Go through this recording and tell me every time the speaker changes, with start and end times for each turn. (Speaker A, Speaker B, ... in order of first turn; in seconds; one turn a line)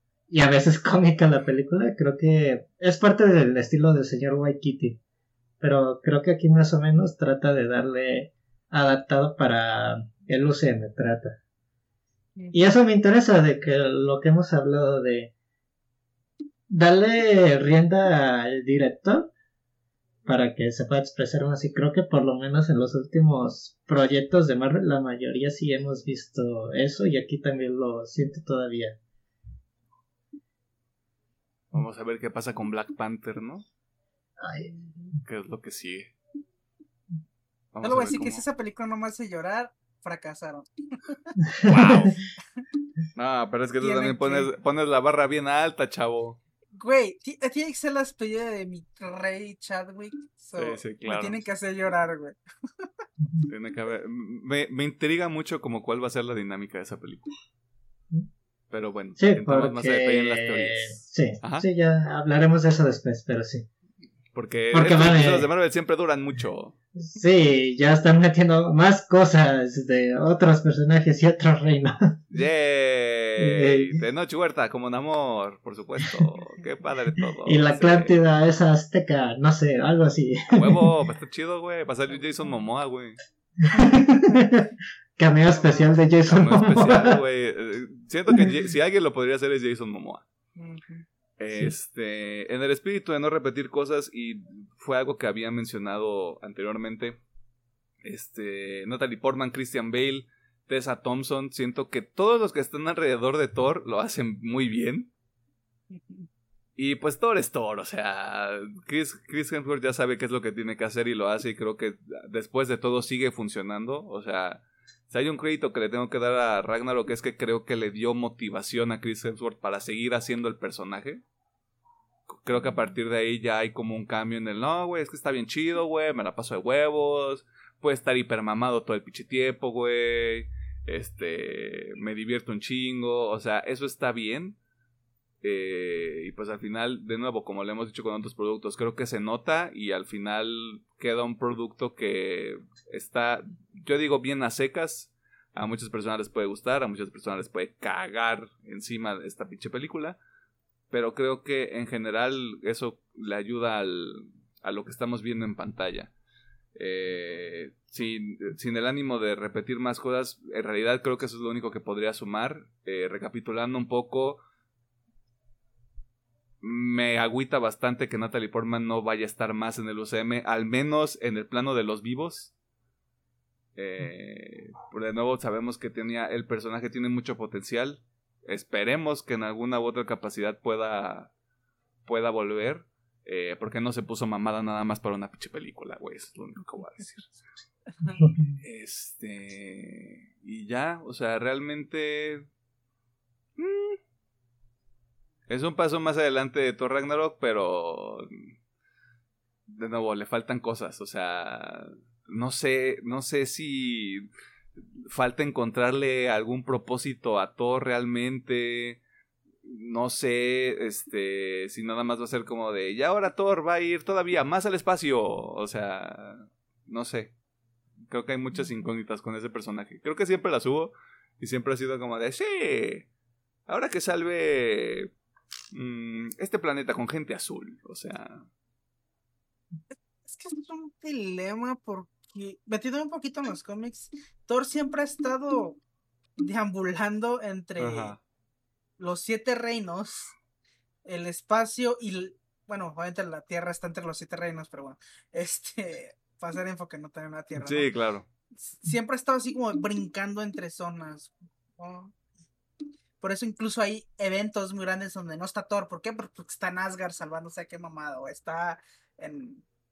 Speaker A: 0.3-5.0
Speaker A: 5.6-11.4
Speaker A: 12.5-15.3
Speaker A: 16.7-19.3
Speaker A: 20.2-29.0
Speaker B: 31.7-33.6
Speaker A: 34.4-34.7
Speaker B: 35.2-36.1
Speaker B: 37.7-38.4
Speaker C: 37.8-41.4
Speaker B: 41.6-42.1
Speaker B: 43.1-46.4
Speaker C: 43.8-44.5
Speaker C: 46.7-52.9
Speaker B: 50.5-51.4
Speaker B: 53.5-57.3
Speaker B: 58.7-61.6
Speaker A: 59.2-63.6
Speaker B: 64.3-66.7
Speaker A: 64.7-65.5
Speaker A: 67.0-72.2
Speaker B: 72.3-78.1
Speaker A: 73.4-74.0
Speaker A: 77.4-80.9
Speaker B: 80.5-83.2
Speaker A: 83.6-87.2
Speaker C: 83.8-84.2
Speaker C: 85.5-85.9
Speaker B: 86.2-90.2
Speaker C: 90.5-91.0
Speaker B: 91.4-97.2
Speaker B: 98.0-105.1
Speaker C: 105.9-106.3
Speaker B: 106.8-121.2
Speaker B: 122.3-134.6
Speaker B: 135.4-150.2
Speaker B: 150.9-156.1
Speaker B: 156.7-164.4
Speaker B: 166.6-172.5
Speaker B: 173.8-181.3
Speaker B: 182.1-187.3
Speaker C: 188.0-188.3
Speaker B: 188.6-192.5
Speaker B: 193.6-194.0
Speaker B: 195.5-198.3
Speaker B: 199.7-204.3
Speaker B: 205.1-209.0
Speaker B: 209.7-217.3
Speaker B: 218.1-223.1
Speaker B: 223.7-225.1
Speaker B: 225.7-228.4
Speaker C: 230.2-235.8
Speaker C: 236.4-238.2
Speaker B: 237.8-238.2
Speaker C: 239.0-240.3
Speaker C: 241.0-247.9
Speaker B: 247.6-248.2
Speaker C: 248.6-252.1
Speaker C: 253.2-259.6